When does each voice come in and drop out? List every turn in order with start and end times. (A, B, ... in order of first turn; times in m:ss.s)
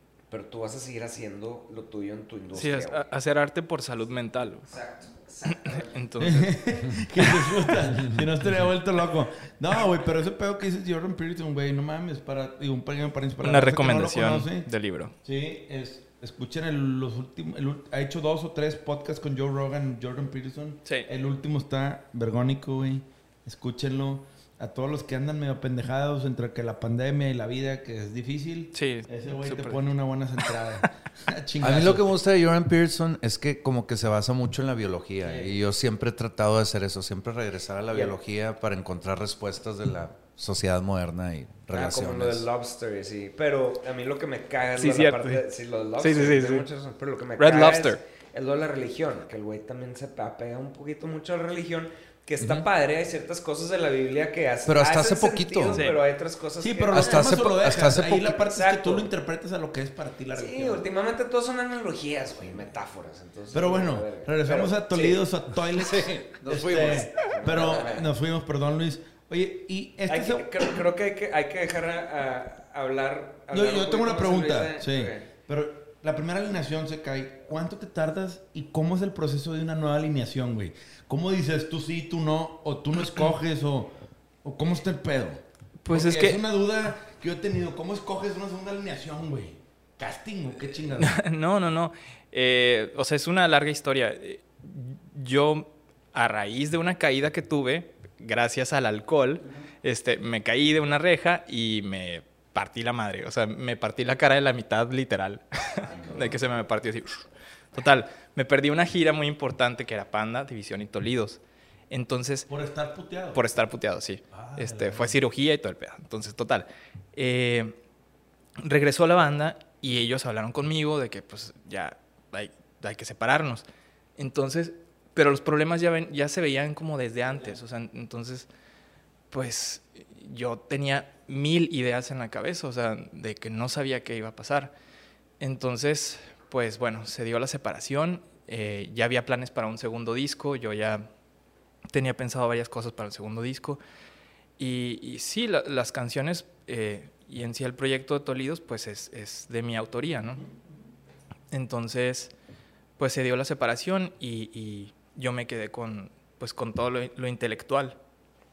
0:00.3-0:03.1 A
0:02.5-0:04.7 B
0:04.7-0:06.0 A
0:05.5-0:07.4 B
0:06.2-0:14.7 C
0:13.4-0:15.1 B
0:15.2-0:32.2 C
0:28.7-0:30.5 B
0:31.6-0:42.5 D
0:35.2-0:35.6 C
0:41.7-0:57.5 A
0:44.8-0:45.4 B
0:46.0-0:46.6 B
0:47.4-0:48.0 B
0:54.6-0:55.8 D
0:55.7-0:56.0 B
0:56.6-1:00.9 C
0:56.9-0:58.4 D
0:58.3-0:59.1 A
1:00.3-1:05.2 A
1:03.5-1:10.6 C
1:05.7-1:07.6 D
1:07.2-1:08.1 A
1:10.1-1:15.3 A
1:13.5-1:31.2 C
1:25.8-1:26.4 B
1:31.0-1:52.5 B
1:45.8-1:46.4 C
1:52.5-1:53.4 C
1:53.3-1:57.7 B
1:54.3-1:55.2 C
1:58.6-2:03.6 B
2:04.2-2:08.5 B
2:09.3-2:14.7 B
2:15.4-2:21.1 B
2:21.9-2:23.8 B
2:24.6-2:30.4 B
2:30.3-2:30.7 C
2:31.5-2:32.3 B
2:33.0-2:38.0 B